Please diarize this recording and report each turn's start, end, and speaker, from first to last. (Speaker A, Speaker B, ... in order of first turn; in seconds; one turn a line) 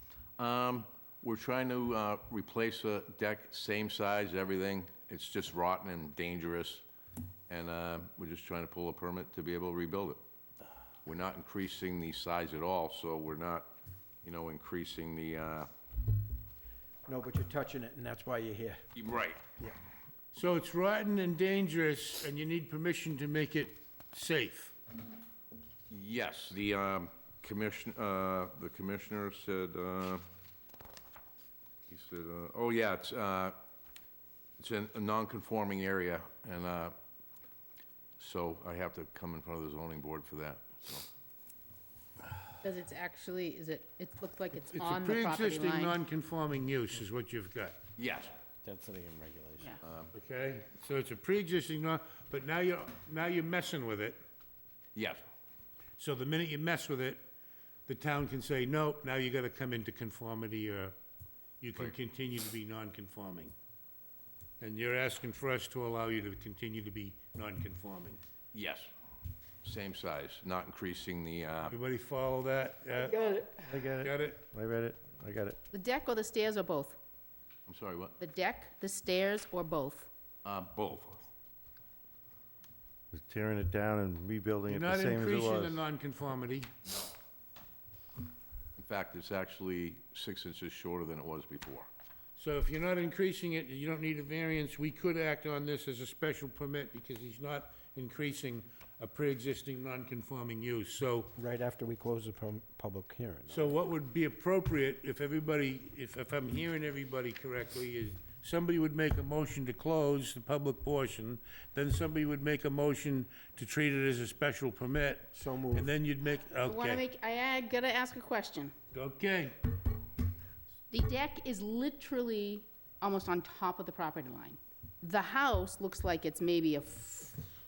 Speaker A: 0.4-6.8
Speaker A: 7.5-10.2
Speaker A: 11.0-13.7
Speaker A: 14.2-15.7
Speaker B: 17.1-18.8
Speaker A: 18.9-19.4
Speaker C: 20.3-24.7
Speaker A: 25.9-30.2
Speaker A: 31.9-33.6
Speaker A: 34.6-36.9
Speaker A: 38.2-41.0
Speaker D: 42.6-46.0
Speaker C: 44.5-47.8
Speaker A: 48.0-48.3
Speaker E: 48.6-49.8
Speaker A: 49.8-50.1
Speaker C: 50.1-54.2
Speaker A: 55.0-55.2
Speaker C: 56.0-57.2
Speaker C: 57.9-61.0
Speaker C: 61.6-63.5
Speaker C: 64.6-68.2
Speaker A: 68.5-68.9
Speaker A: 69.6-71.7
Speaker C: 71.7-73.4
Speaker E: 73.3-75.6
Speaker C: 74.0-74.4
Speaker D: 75.7-76.8
Speaker C: 76.5-76.9
Speaker A: 77.7-78.2
Speaker D: 78.2-80.1
Speaker C: 78.2-78.8
Speaker A: 80.4-81.3
Speaker E: 83.1-85.8
Speaker C: 84.7-86.7
Speaker A: 88.8-91.9
Speaker C: 92.3-101.4
Speaker B: 101.4-103.8
Speaker C: 103.5-117.1
Speaker B: 115.3-115.9
Speaker D: 116.6-118.5
Speaker C: 118.0-119.6
Speaker D: 120.9-122.5
Speaker C: 120.9-121.4
Speaker C: 122.0-127.3
Speaker D: 123.1-124.4
Speaker D: 125.1-127.2